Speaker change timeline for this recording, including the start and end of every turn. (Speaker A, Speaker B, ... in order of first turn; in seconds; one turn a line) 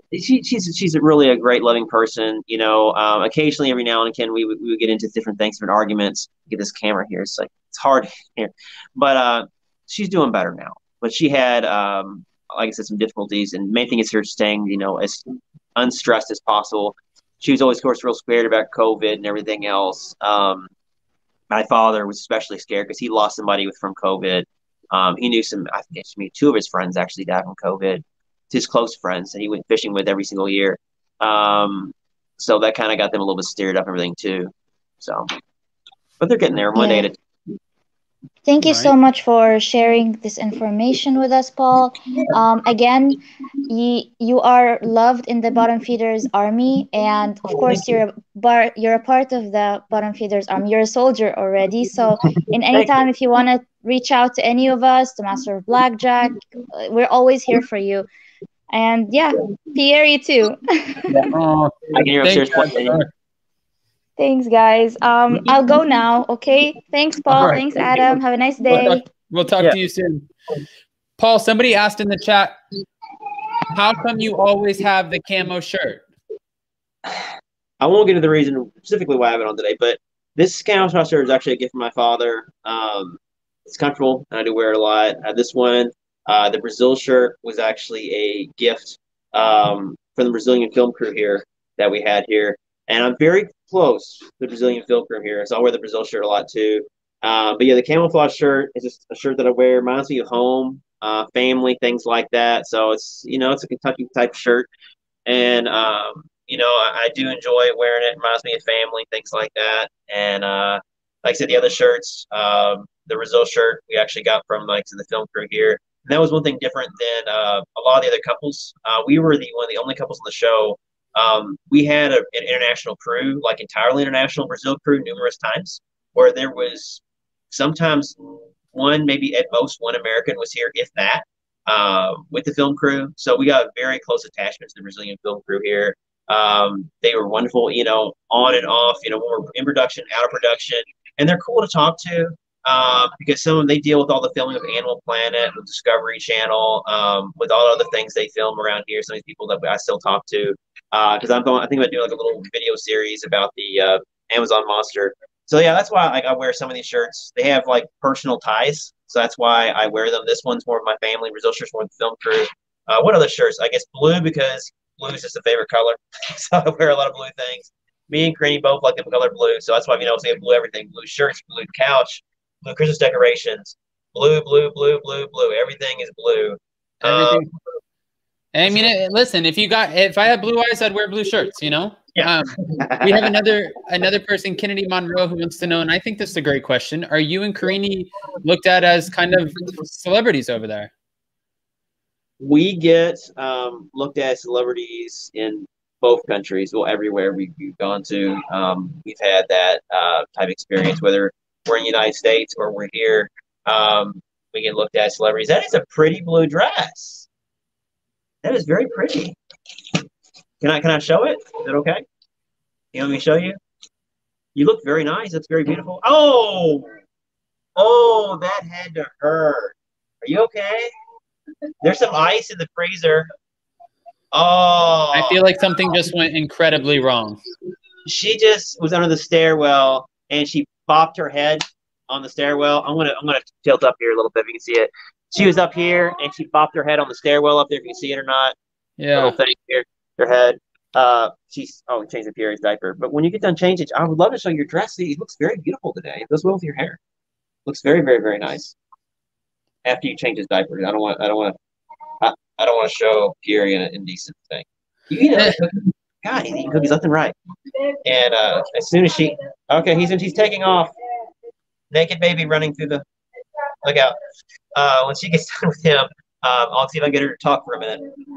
Speaker A: 0.1-15.2
Speaker A: 15.8-20.7
Speaker A: 21.5-35.3
Speaker A: 36.2-37.2
Speaker B: 36.8-37.1
Speaker B: 38.5-58.1
Speaker C: 38.6-38.9
Speaker A: 47.5-47.9
Speaker B: 58.7-61.1
Speaker C: 61.2-63.1
Speaker A: 61.9-63.0
Speaker B: 64.2-69.0
Speaker C: 67.3-67.6
Speaker A: 67.4-67.7
Speaker C: 68.7-70.3
Speaker C: 71.2-72.6
Speaker C: 73.7-76.0
Speaker A: 77.8-104.7
Speaker A: 105.3-177.4
Speaker C: 177.0-177.5
Speaker C: 178.5-190.9
Speaker A: 178.6-178.9
Speaker A: 182.2-183.4
Speaker A: 192.4-207.3
Speaker A: 208.4-209.4
Speaker A: 210.6-212.0
Speaker A: 212.9-213.6
Speaker A: 214.6-216.9
Speaker A: 217.8-220.9
Speaker A: 221.8-223.3
Speaker A: 224.3-225.4
Speaker C: 225.1-227.4
Speaker A: 228.1-238.6
Speaker C: 239.0-239.4
Speaker A: 239.1-247.0
Speaker A: 247.7-248.8
Speaker A: 249.8-251.6
Speaker A: 252.2-257.4
Speaker A: 258.1-260.9
Speaker A: 261.9-263.1
Speaker A: 263.8-264.2
Speaker A: 264.8-268.1